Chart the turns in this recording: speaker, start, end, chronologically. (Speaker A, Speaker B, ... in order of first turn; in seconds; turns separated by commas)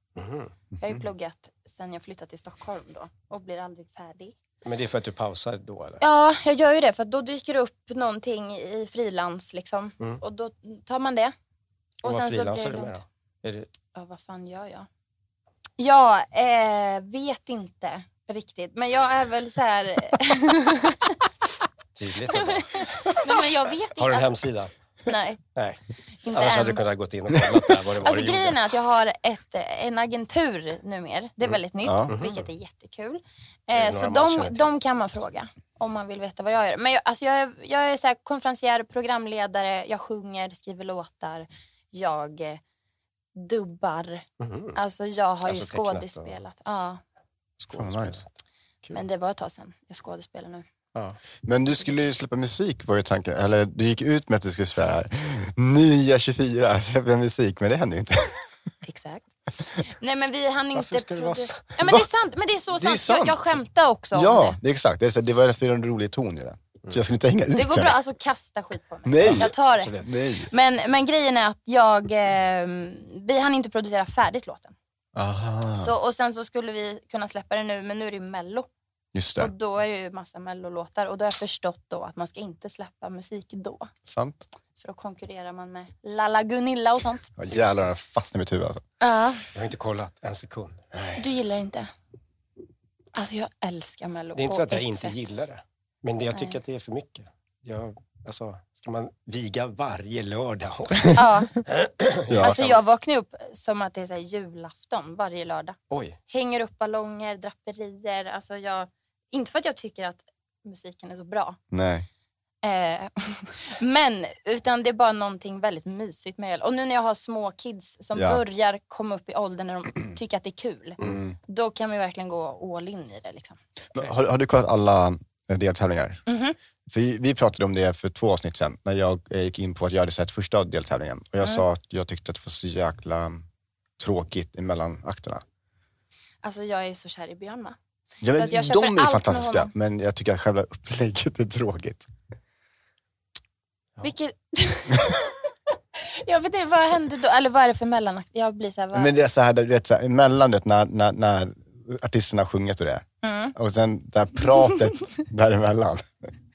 Speaker A: 0.1-0.5, Speaker B: 0.8-1.0, Speaker C: 0.8-4.3, Speaker A: 4.6-6.0, Speaker C: 6.0-11.3, Speaker A: 12.0-13.7, Speaker C: 12.0-13.0, Speaker C: 13.9-14.9, Speaker C: 15.8-21.2, Speaker A: 21.9-23.1, Speaker C: 22.3-24.4, Speaker A: 24.0-24.7, Speaker C: 25.1-25.4, Speaker C: 26.2-26.8, Speaker A: 26.3-28.6, Speaker C: 28.0-42.6, Speaker B: 31.8-32.1, Speaker A: 32.1-32.5, Speaker A: 33.7-34.7, Speaker C: 43.3-47.0, Speaker A: 44.4-44.8, Speaker A: 45.4-46.4, Speaker B: 47.6-48.2, Speaker A: 47.7-49.0, Speaker C: 48.9-50.6, Speaker A: 50.9-51.2, Speaker B: 51.4-58.5, Speaker C: 58.8-64.6, Speaker A: 60.7-61.7, Speaker B: 62.8-63.6, Speaker B: 64.1-68.0, Speaker C: 67.5-74.7, Speaker B: 69.0-70.5, Speaker A: 69.2-70.1, Speaker B: 75.1-75.9, Speaker C: 75.7-78.7, Speaker B: 79.1-79.5, Speaker C: 79.4-83.9, Speaker B: 84.0-84.5, Speaker C: 84.8-87.3, Speaker B: 87.4-88.8, Speaker C: 89.0-89.4, Speaker A: 89.5-90.8, Speaker C: 91.2-91.9, Speaker C: 93.1-95.2, Speaker A: 94.3-102.8, Speaker C: 101.1-101.6, Speaker B: 102.3-102.6, Speaker C: 102.4-105.8, Speaker A: 105.9-106.2, Speaker C: 106.3-111.6, Speaker B: 111.7-112.0, Speaker C: 112.6-123.6, Speaker B: 118.1-118.4, Speaker B: 121.0-121.4, Speaker B: 123.9-126.2, Speaker C: 126.3-126.5, Speaker B: 126.9-133.4, Speaker B: 134.0-135.4, Speaker C: 136.4-137.8, Speaker B: 138.2-142.1, Speaker C: 138.3-139.7, Speaker C: 144.0-149.1, Speaker B: 148.9-156.3, Speaker C: 153.2-153.6